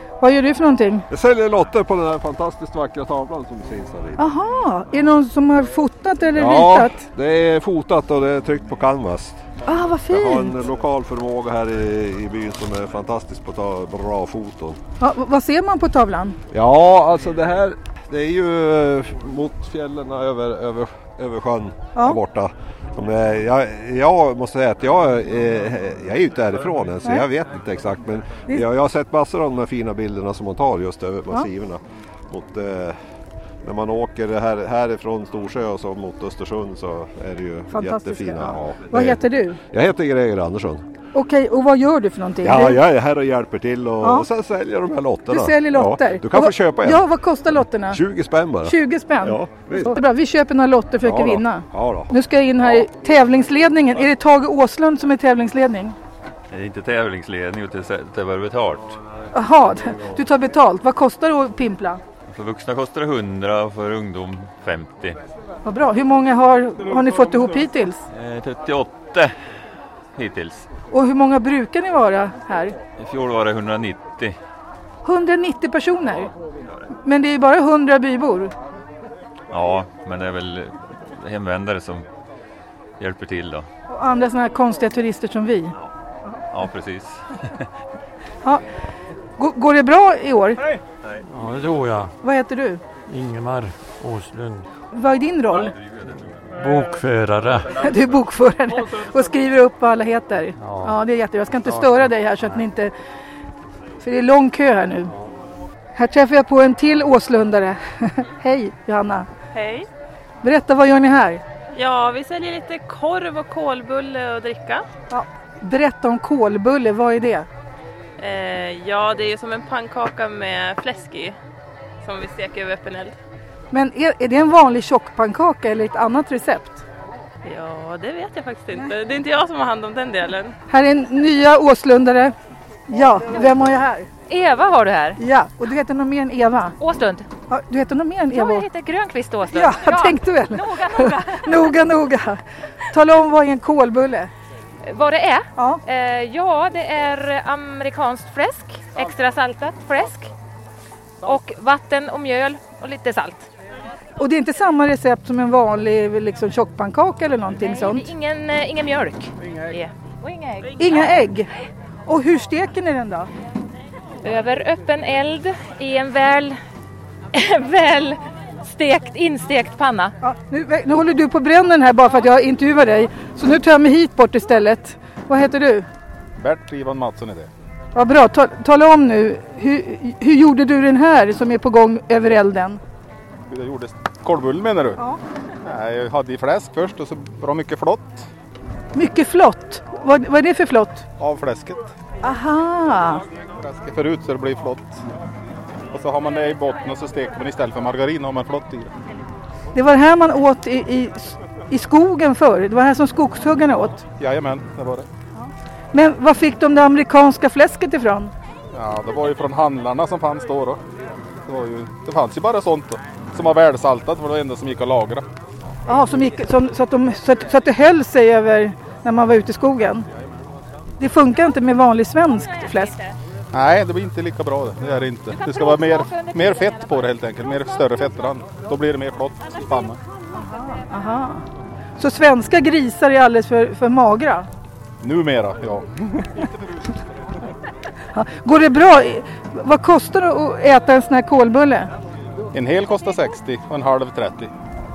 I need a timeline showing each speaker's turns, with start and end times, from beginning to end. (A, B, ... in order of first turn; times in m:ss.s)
0:00.2-0:01.0 A
0:01.1-0:04.2 B
0:04.2-0:07.0 A
0:06.4-0:09.4 B
0:09.7-0:10.5 A
0:10.1-0:14.8 B
0:15.0-0:16.4 A
0:16.5-0:33.0 B
0:33.6-0:40.8 B
0:37.7-0:39.6 A
0:41.2-0:42.8 A
0:42.4-0:47.1 B
0:45.3-0:48.0 A
0:47.9-0:48.7 B
0:48.7-0:56.0 A
0:49.2-0:50.0 B
0:51.0-0:52.1 B
0:56.5-0:59.0 C
0:59.3-1:02.0 A
1:02.3-1:05.2 C
1:05.7-1:08.0 A
1:08.1-1:09.3 C
1:10.2-1:10.7 C
1:10.9-1:12.8 A
1:13.0-1:14.4 C
1:15.0-1:16.3 A
1:17.0-1:18.5 A
1:19.5-1:22.1 C
1:23.0-1:23.7 C
1:23.9-1:25.8 A
1:26.5-1:27.3 C
1:29.4-1:30.6 A
1:31.3-1:32.1 D
1:32.2-1:32.8 A
1:33.1-1:34.6 D
1:34.9-1:35.8 A
1:35.7-1:36.5 C
1:36.6-1:37.7 D
1:37.8-1:42.9 A
1:44.0-1:45.1 A
1:46.0-1:49.3 A
1:49.5-1:49.9 E
1:50.4-1:51.4 A
1:51.8-1:54.8 E
1:55.1-1:57.5 A
1:58.2-2:01.4 E
2:02.0-2:03.2 E
2:03.7-2:06.8 A
2:07.4-2:10.5 E
2:10.7-2:12.3 A
2:12.9-2:14.1 A
2:14.3-2:15.2 F
2:15.2-2:16.8 A
2:16.8-2:17.3 F
2:17.5-2:18.6 A
2:18.3-2:21.7 F
2:19.5-2:24.3 A
2:24.9-2:30.3 F
2:31.2-2:33.5 F
2:34.2-2:38.1 A
2:37.6-2:41.0 F
2:40.8-2:41.5 A
2:42.1-2:43.3 A
2:44.2-2:46.6 F
2:47.3-2:50.1 F
2:50.2-2:55.9 A
2:56.4-2:57.5 G
2:57.9-3:02.8 A
3:03.5-3:05.0 G
3:05.6-3:08.3 G
3:08.9-3:11.1 A
3:11.2-3:11.9 G
3:12.2-3:13.2 A
3:13.6-3:15.0 G
3:15.9-3:18.9 G
3:19.8-3:24.0 A
3:24.2-3:25.1 G
3:25.4-3:28.3 A
3:28.7-3:30.8 G
3:31.4-3:35.2 G
3:35.9-3:40.0 A
3:41.0-3:43.0 A
3:43.5-3:50.0 G
3:45.9-3:46.3 F
3:50.3-3:51.4 A
3:52.0-3:54.5 A
3:55.0-3:56.8 G
3:58.1-4:01.9 A
4:02.5-4:04.5 G